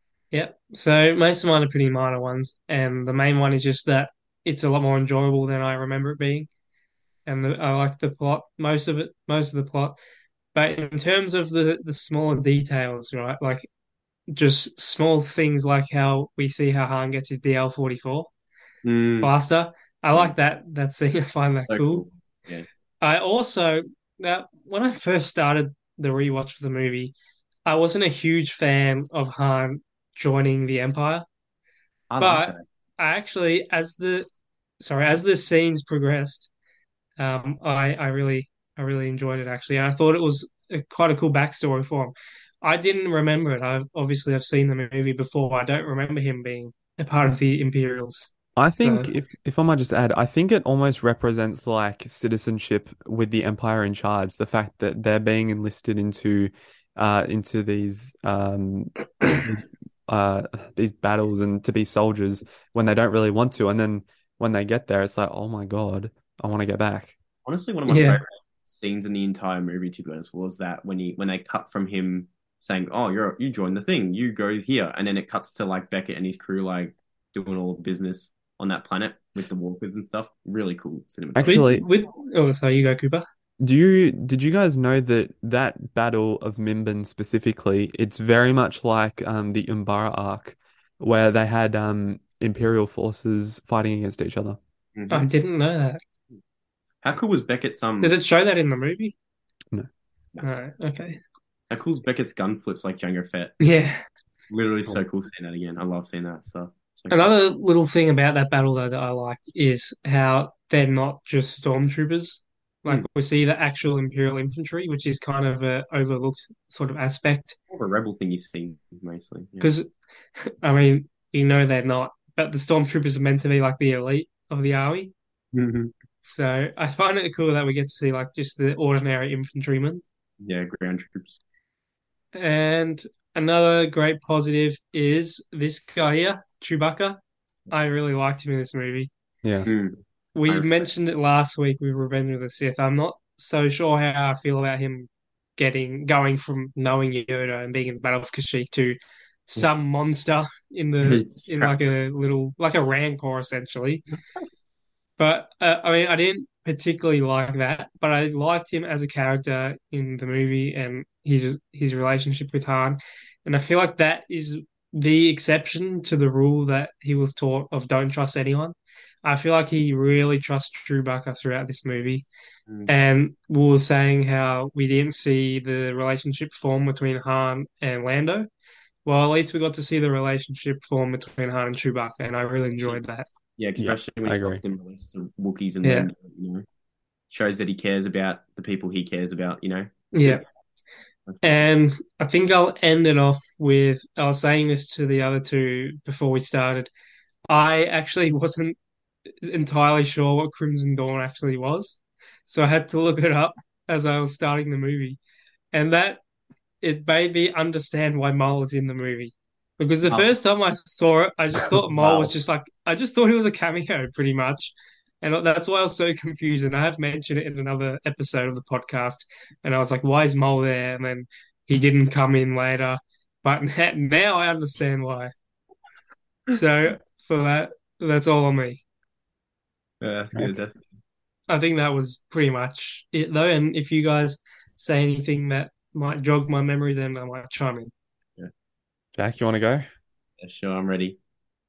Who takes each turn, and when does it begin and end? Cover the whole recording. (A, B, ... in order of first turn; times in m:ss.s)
0:00.3-0:06.5 A
0:07.3-0:10.0 A
0:10.5-0:13.7 A
0:14.3-0:18.3 A
0:18.8-0:19.3 B
0:19.2-0:22.0 A
0:21.7-0:22.7 B
0:23.0-0:27.1 A
0:27.7-0:31.2 A
0:32.1-0:32.6 B
0:32.2-0:34.3 A
0:34.8-0:36.5 A
0:37.2-0:49.1 A
0:48.6-1:07.2 C
1:07.4-1:21.6 B
1:07.9-1:08.2 A
1:21.4-1:21.8 C
1:21.4-1:23.2 A
1:23.6-1:34.6 C
1:35.0-1:35.3 B
1:35.1-1:36.0 A
1:37.0-1:38.2 B
1:38.0-1:39.2 A
1:40.4-1:41.2 A
1:41.7-1:43.6 B
1:43.6-1:44.0 A
1:44.5-1:47.3 B
1:47.1-1:57.6 A
1:57.7-1:59.7 B
1:59.6-2:05.1 A
2:05.5-2:05.9 B
2:06.2-2:10.0 A
2:10.4-2:11.4 B
2:12.3-2:19.1 A
2:19.4-2:19.7 C
2:19.7-2:20.7 B
2:20.4-2:34.1 A
2:31.0-2:31.8 B
2:35.2-2:52.3 A
2:52.9-2:58.5 A
2:59.0-3:03.3 A
3:03.6-3:06.6 B
3:03.8-3:04.6 C
3:05.8-3:06.1 A
3:07.3-3:10.5 B
3:10.1-3:10.4 A
3:11.3-3:11.7 B
3:11.4-3:16.9 A
3:17.5-3:18.8 A
3:19.4-3:25.2 A
3:25.7-3:26.2 A
3:26.8-3:45.3 A
3:31.9-3:32.3 B
3:46.5-3:48.8 A
3:50.0-3:50.9 B
3:51.5-3:57.9 A
3:59.2-3:59.8 C
4:00.4-4:01.2 B